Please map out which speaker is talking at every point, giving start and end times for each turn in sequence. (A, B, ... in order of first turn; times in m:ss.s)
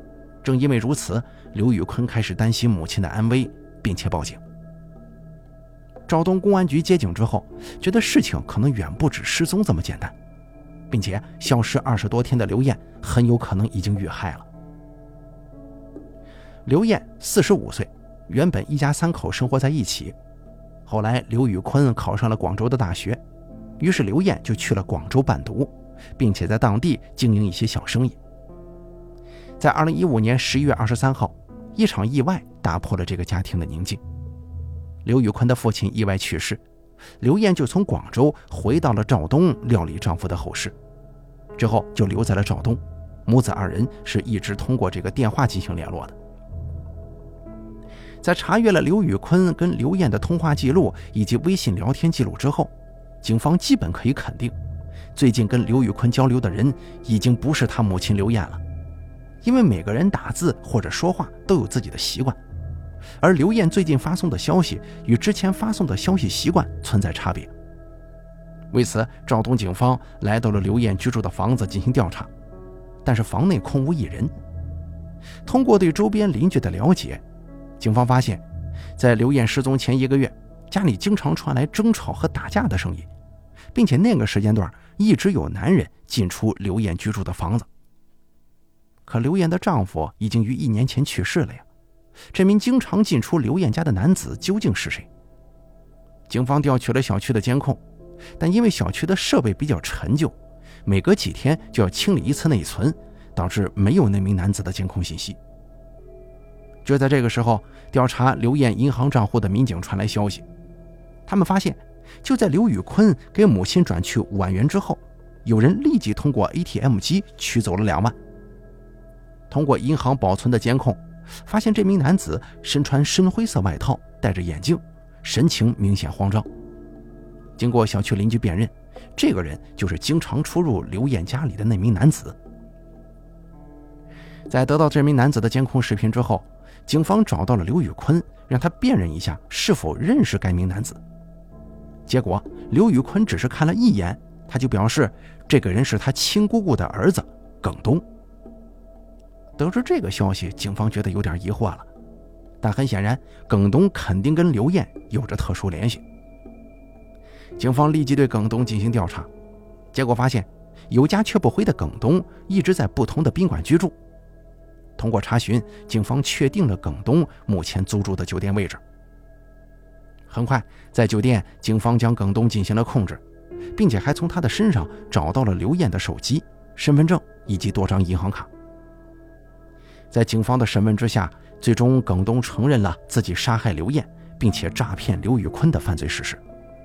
0:00.4-0:04.4 A
0:06.1-0:10.1 A
0:10.9-0:14.5 A
0:16.6-0:20.1 A
0:20.8-0:23.2 A
0:23.8-0:28.2 A
0:29.6-0:34.0 A
0:35.0-0:36.6 A
0:37.2-0:40.7 A
0:41.6-0:46.2 A
0:48.2-0:54.5 A
0:55.1-0:58.6 A
0:59.4-1:02.4 A
1:03.2-1:07.5 A
1:08.7-1:12.3 A
1:13.0-1:14.3 A
1:15.4-1:17.2 A
1:17.8-1:18.4 A
1:19.0-1:23.1 A
1:23.7-1:27.7 A
1:29.0-1:31.6 A
1:32.3-1:35.1 A
1:36.3-1:37.8 A
1:38.4-1:40.3 A
1:40.8-1:45.4 A
1:46.8-1:50.4 A
1:51.3-1:58.2 A
1:59.5-2:06.5 A
2:07.6-2:12.4 A
2:14.5-2:21.0 A
2:22.1-2:28.0 A
2:29.6-2:31.9 A
2:32.6-2:36.0 A
2:37.6-2:39.3 A
2:39.9-2:43.9 A
2:45.0-2:48.8 A
2:50.3-2:53.2 A
2:53.7-2:58.5 A
3:00.1-3:06.4 A